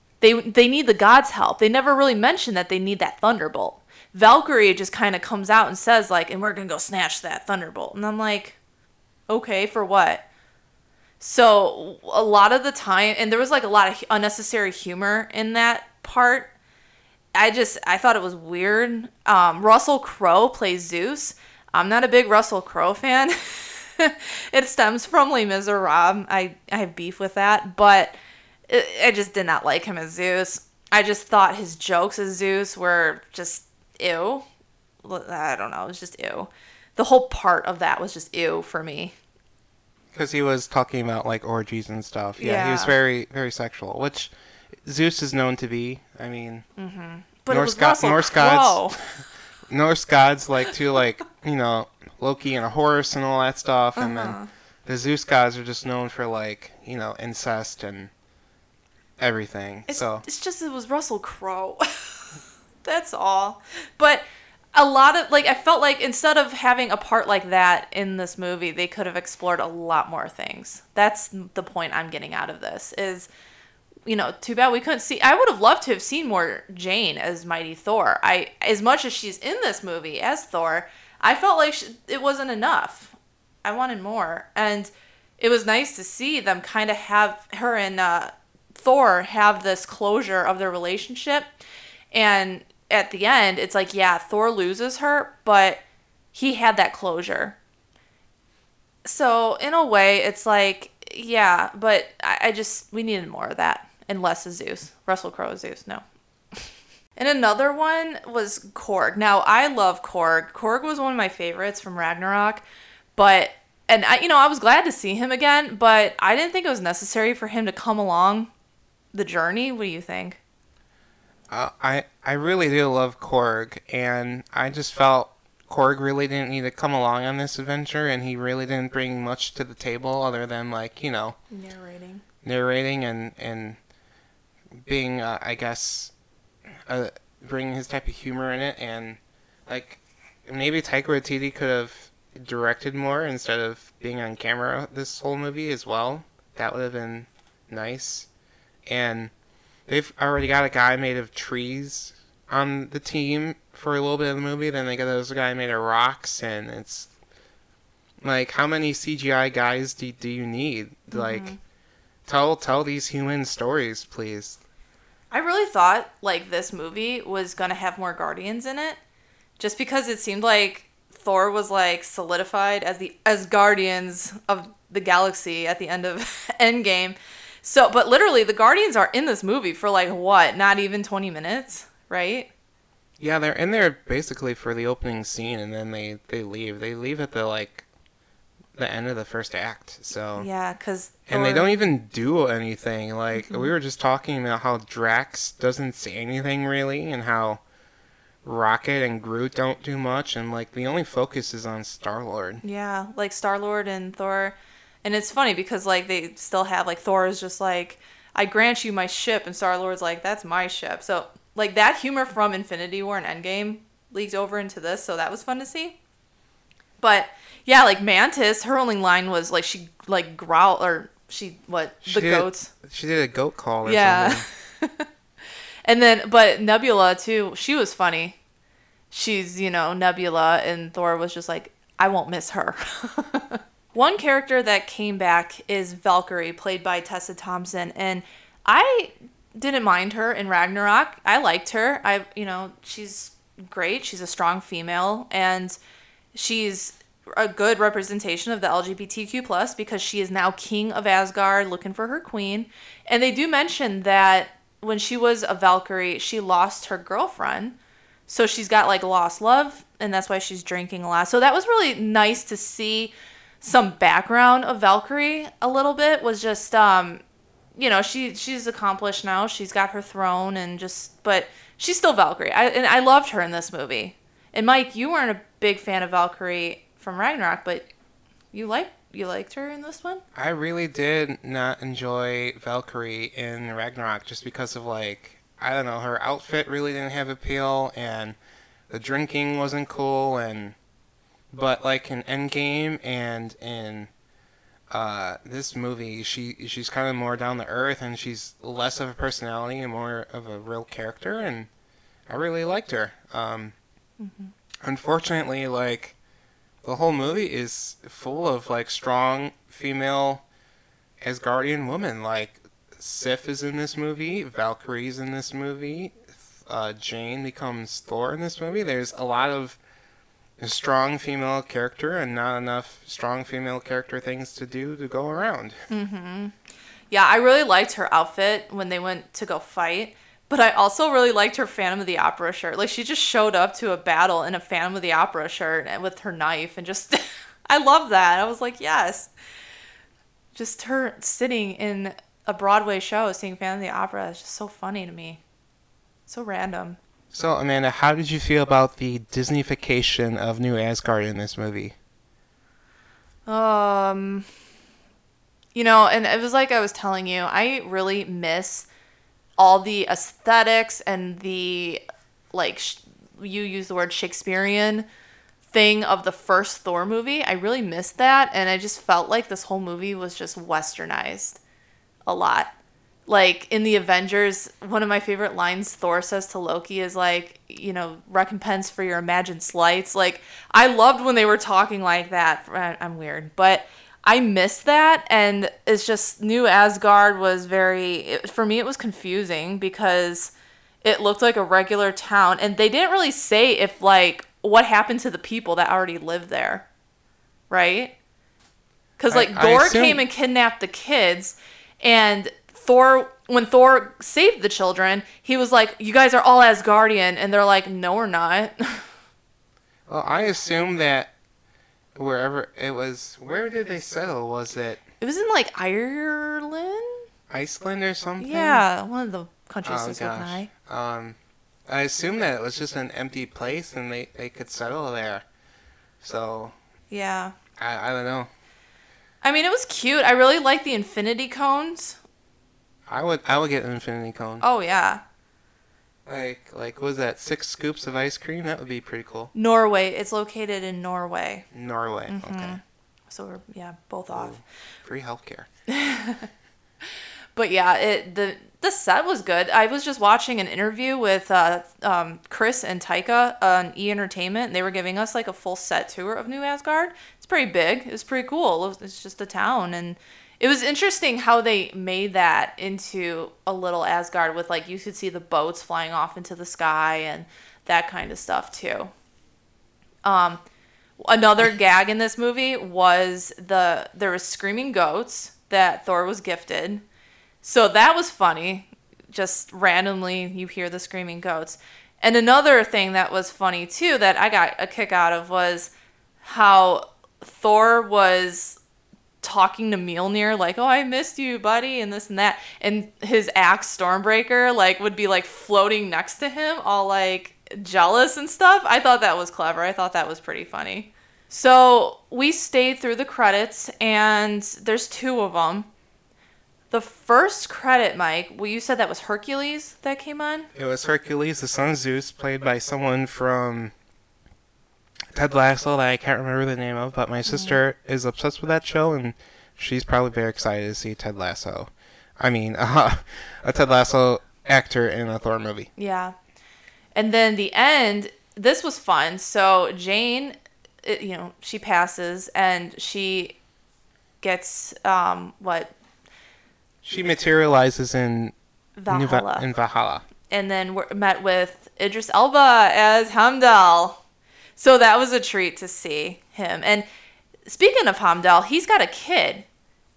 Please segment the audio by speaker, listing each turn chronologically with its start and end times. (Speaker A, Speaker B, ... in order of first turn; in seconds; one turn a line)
Speaker A: 0.2-8.6
Speaker A: 9.3-10.2
Speaker A: 11.2-16.5
Speaker A: 17.3-28.2
Speaker A: 28.7-34.5
Speaker A: 35.0-39.1
Speaker B: 40.1-44.3
Speaker A: 42.4-42.9
Speaker B: 44.8-46.6
Speaker A: 46.8-49.0
Speaker B: 47.5-58.1
Speaker A: 54.0-54.5
Speaker B: 59.2-60.2
Speaker A: 59.9-62.3
Speaker A: 62.8-73.3
Speaker A: 74.0-91.5
Speaker A: 92.1-95.8
Speaker A: 96.3-97.6
Speaker A: 99.0-106.0
Speaker A: 107.2-112.6
Speaker A: 113.2-118.5
Speaker A: 119.1-120.4
Speaker B: 121.5-131.4
Speaker A: 131.5-132.2
Speaker B: 132.4-133.8
Speaker B: 134.8-136.1
Speaker B: 136.9-148.3
Speaker B: 148.8-149.3
Speaker B: 149.9-157.1
Speaker B: 158.2-161.5
Speaker A: 161.1-161.6
Speaker B: 162.2-164.6
Speaker A: 165.3-169.0
Speaker A: 169.6-182.5
Speaker B: 183.2-187.8
Speaker B: 188.7-190.5
Speaker A: 190.4-191.7
Speaker B: 191.3-197.6
Speaker A: 193.3-193.7
Speaker B: 198.4-202.6
Speaker A: 202.6-216.0
Speaker A: 217.0-222.7
Speaker B: 222.0-224.4
Speaker A: 223.8-225.1
Speaker A: 225.8-228.4
Speaker A: 229.1-245.8
Speaker A: 246.3-267.2
Speaker A: 267.8-277.9
Speaker A: 278.5-280.2
Speaker B: 280.3-288.4
Speaker B: 288.9-290.8
Speaker B: 291.5-294.1
Speaker B: 294.9-301.7
Speaker B: 302.3-303.7
Speaker A: 304.2-304.5
Speaker B: 304.8-306.1
Speaker B: 306.8-310.4
Speaker B: 311.2-319.8
Speaker B: 320.6-325.8
Speaker A: 325.9-326.5
Speaker A: 327.1-339.3
Speaker A: 340.5-345.4
Speaker A: 346.3-347.0
Speaker B: 347.3-351.9
Speaker A: 353.5-354.5
Speaker A: 355.7-358.9
Speaker A: 359.6-362.0
Speaker A: 362.5-365.1
Speaker A: 365.7-371.6
Speaker A: 372.3-372.7
Speaker A: 373.3-396.9
Speaker A: 397.7-398.1
Speaker A: 399.2-409.1
Speaker B: 399.3-400.2
Speaker B: 410.1-411.3
Speaker B: 412.1-415.0
Speaker A: 415.2-417.2
Speaker B: 417.5-418.9
Speaker A: 418.4-420.7
Speaker B: 419.8-421.4
Speaker B: 421.9-425.4
Speaker B: 426.2-426.7
Speaker A: 427.1-427.5
Speaker B: 427.8-428.5
Speaker A: 429.4-432.2
Speaker B: 433.1-434.6
Speaker A: 434.6-435.2
Speaker B: 436.2-439.5
Speaker A: 439.5-441.6
Speaker B: 441.7-442.8
Speaker A: 442.3-444.6
Speaker B: 444.3-445.7
Speaker A: 445.9-446.5
Speaker A: 447.6-469.1
Speaker A: 470.2-470.6
Speaker A: 471.2-477.0
Speaker A: 477.6-485.9
Speaker A: 486.4-488.8
Speaker A: 489.4-505.9
Speaker A: 506.9-510.7
Speaker B: 510.7-513.9
Speaker B: 515.3-525.9
Speaker A: 517.5-517.8
Speaker A: 526.0-526.3
Speaker A: 527.1-533.6
Speaker A: 534.4-535.9
Speaker B: 537.0-538.5
Speaker A: 539.0-539.7
Speaker B: 539.1-540.2
Speaker A: 540.5-544.2
Speaker A: 544.8-547.0
Speaker A: 547.6-549.6